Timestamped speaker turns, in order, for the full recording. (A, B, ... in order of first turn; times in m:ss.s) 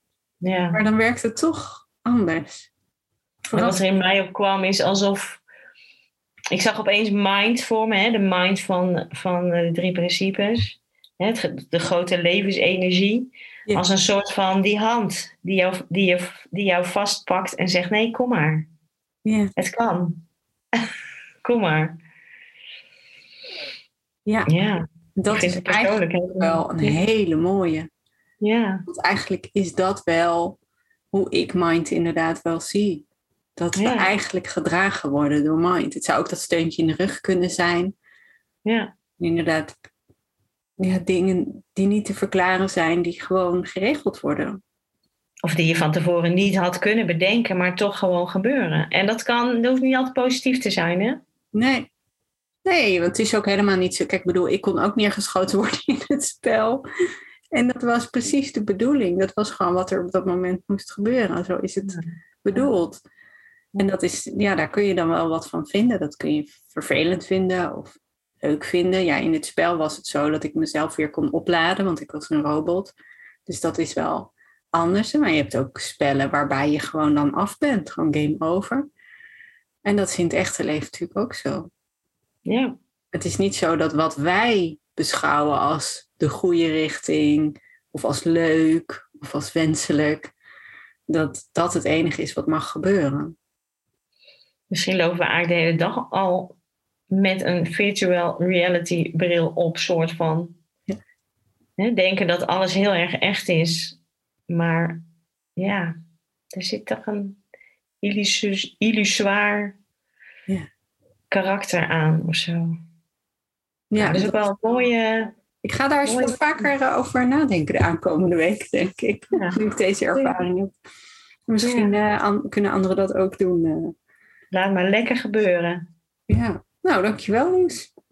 0:00.4-0:00.8 A
0:00.7-0:02.7 B
0:03.5-0:03.8 B
0:03.5-0:05.4 A
0:06.5-0:18.7 A
0:19.2-0:19.5 B
0:19.6-0:20.2 A
0:21.4-0:22.0 A
0:24.2-0:24.5 B
0:24.5-0:27.0 A
0:25.2-0:27.9 B
0:28.4-0:28.8 A
0:28.9-0:30.6 B
0:31.1-0:33.0 B
0:33.6-0:37.9 B
0:33.8-0:34.1 A
0:38.6-0:38.9 A
0:39.2-0:39.7 B
0:40.8-0:44.6 B
0:45.4-0:51.2 A
0:51.5-0:51.9 B
0:52.6-0:56.8 B
0:57.5-1:03.0 B
1:01.9-1:02.6 A
1:03.8-1:12.9 B
1:13.4-1:18.9 B
1:19.8-1:21.7 B
1:22.4-1:22.8 A
1:23.1-1:30.3 B
1:31.1-1:33.3 B
1:34.7-1:36.6 A
1:37.1-1:40.6 A
1:41.8-1:44.0 A
1:44.5-1:45.0 A
1:45.6-1:45.9 A
1:46.5-1:47.4 A
1:48.0-1:49.8 A
1:51.3-1:52.7 A
1:53.9-1:54.4 B
1:54.0-1:55.3 A
1:55.6-2:00.7 B
1:56.0-1:56.4 A
1:59.3-1:59.6 A
2:01.5-2:03.9 B
2:01.6-2:01.9 A
2:04.5-2:05.8 A
2:06.3-2:07.9 B